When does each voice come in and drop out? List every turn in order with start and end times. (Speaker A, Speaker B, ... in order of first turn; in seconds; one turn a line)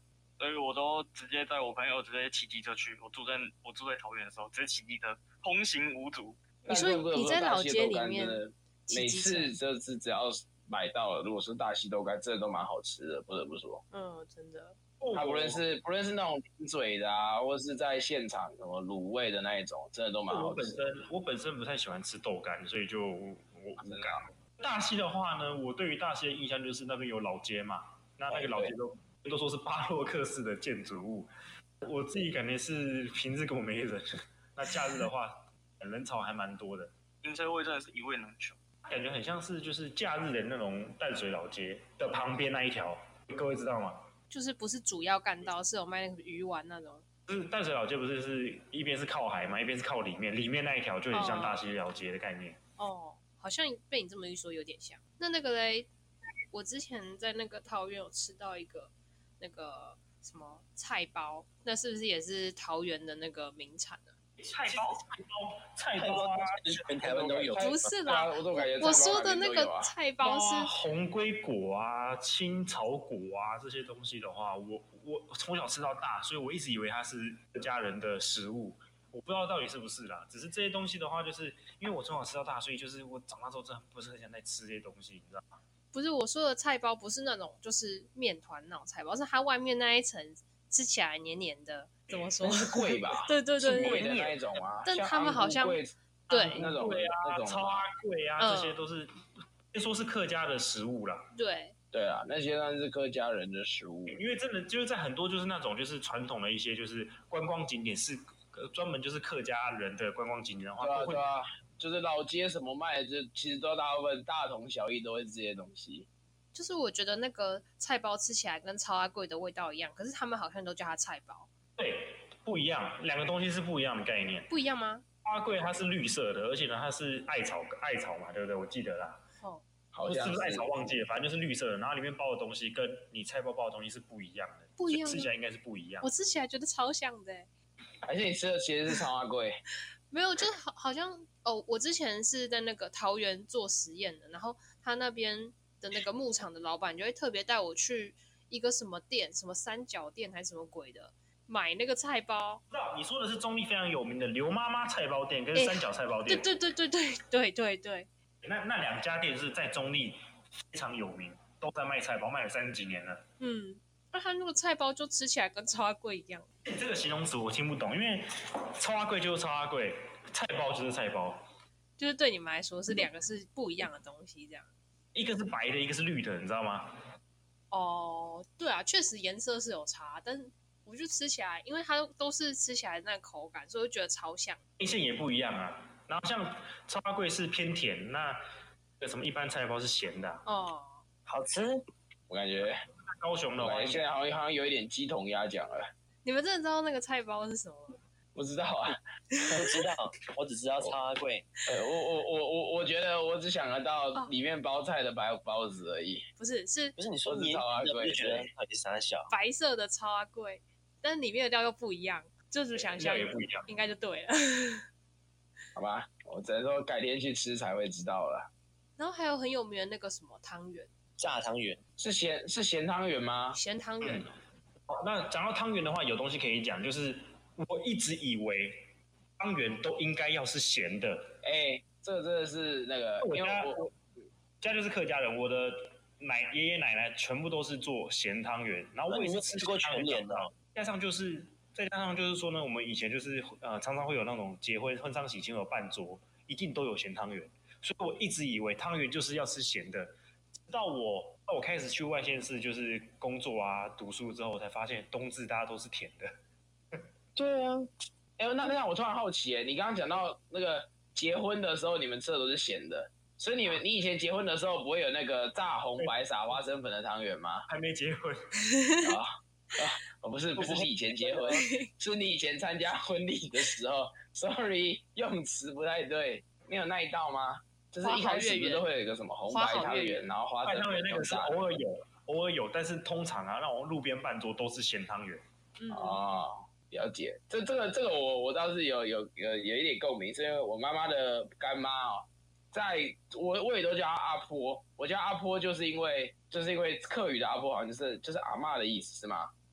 Speaker A: 0.4-6.4
Speaker B: 6.6-13.8
Speaker C: 6.7-9.5
Speaker C: 13.9-14.8
Speaker D: 15.0-15.6
Speaker B: 15.1-21.0
Speaker D: 20.3-31.3
Speaker B: 23.8-24.3
Speaker B: 28.3-28.7
Speaker D: 31.8-36.9
Speaker A: 37.2-38.6
Speaker D: 38.9-44.1
Speaker C: 44.3-47.0
Speaker D: 47.3-52.6
Speaker C: 51.1-51.6
Speaker C: 52.8-55.9
Speaker C: 56.5-64.1
Speaker D: 64.4-66.8
Speaker E: 66.0-68.0
Speaker B: 67.0-69.9
Speaker C: 67.6-70.7
Speaker D: 70.2-85.5
Speaker C: 85.9-94.1
Speaker B: 92.4-95.9
Speaker E: 93.9-94.3
Speaker C: 94.8-96.6
Speaker D: 96.3-99.1
Speaker B: 96.5-97.8
Speaker C: 98.4-98.8
Speaker D: 99.7-101.3
Speaker C: 101.3-101.7
Speaker B: 101.9-104.2
Speaker D: 104.1-111.2
Speaker B: 110.8-116.1
Speaker C: 116.5-121.5
Speaker D: 121.8-124.5
Speaker C: 124.5-125.0
Speaker D: 125.2-129.2
Speaker C: 129.4-129.6
Speaker B: 129.9-130.7
Speaker D: 130.1-136.1
Speaker C: 134.8-135.3
Speaker C: 136.0-137.5
Speaker B: 138.0-139.6
Speaker C: 140.1-152.6
Speaker D: 152.7-156.5
Speaker C: 155.5-158.1
Speaker D: 158.4-160.2
Speaker D: 160.7-163.2
Speaker C: 163.4-166.4
Speaker D: 166.6-168.2
Speaker D: 168.8-171.4
Speaker C: 172.0-174.7
Speaker D: 175.1-176.9
Speaker C: 177.7-184.6
Speaker D: 184.8-188.4
Speaker D: 189.0-190.4
Speaker C: 190.4-191.0
Speaker E: 191.3-191.8
Speaker B: 192.3-192.8
Speaker D: 193.2-194.1
Speaker B: 193.6-195.8
Speaker C: 196.2-198.0
Speaker B: 198.3-199.0
Speaker C: 199.3-199.6
Speaker E: 199.5-201.5
Speaker B: 201.7-206.2
Speaker C: 206.4-206.9
Speaker E: 207.0-209.3
Speaker B: 207.2-208.5
Speaker C: 209.3-214.8
Speaker D: 212.7-213.7
Speaker B: 215.8-218.5
Speaker C: 219.0-220.9
Speaker E: 221.2-221.8
Speaker B: 222.0-223.6
Speaker C: 223.5-224.3
Speaker D: 224.0-224.3
Speaker D: 224.9-228.8
Speaker D: 229.4-231.3
Speaker B: 231.4-233.9
Speaker D: 233.2-233.9
Speaker D: 234.6-250.1
Speaker E: 239.1-240.5
Speaker D: 250.7-256.3
Speaker E: 257.4-257.9
Speaker B: 258.4-267.6
Speaker D: 267.7-268.4
Speaker C: 268.6-269.2
Speaker B: 269.0-281.6
Speaker D: 270.6-270.9
Speaker C: 271.5-271.9
Speaker C: 278.0-278.9
Speaker C: 279.5-280.3
Speaker D: 280.6-285.4
Speaker C: 285.8-286.2
Speaker B: 285.9-299.5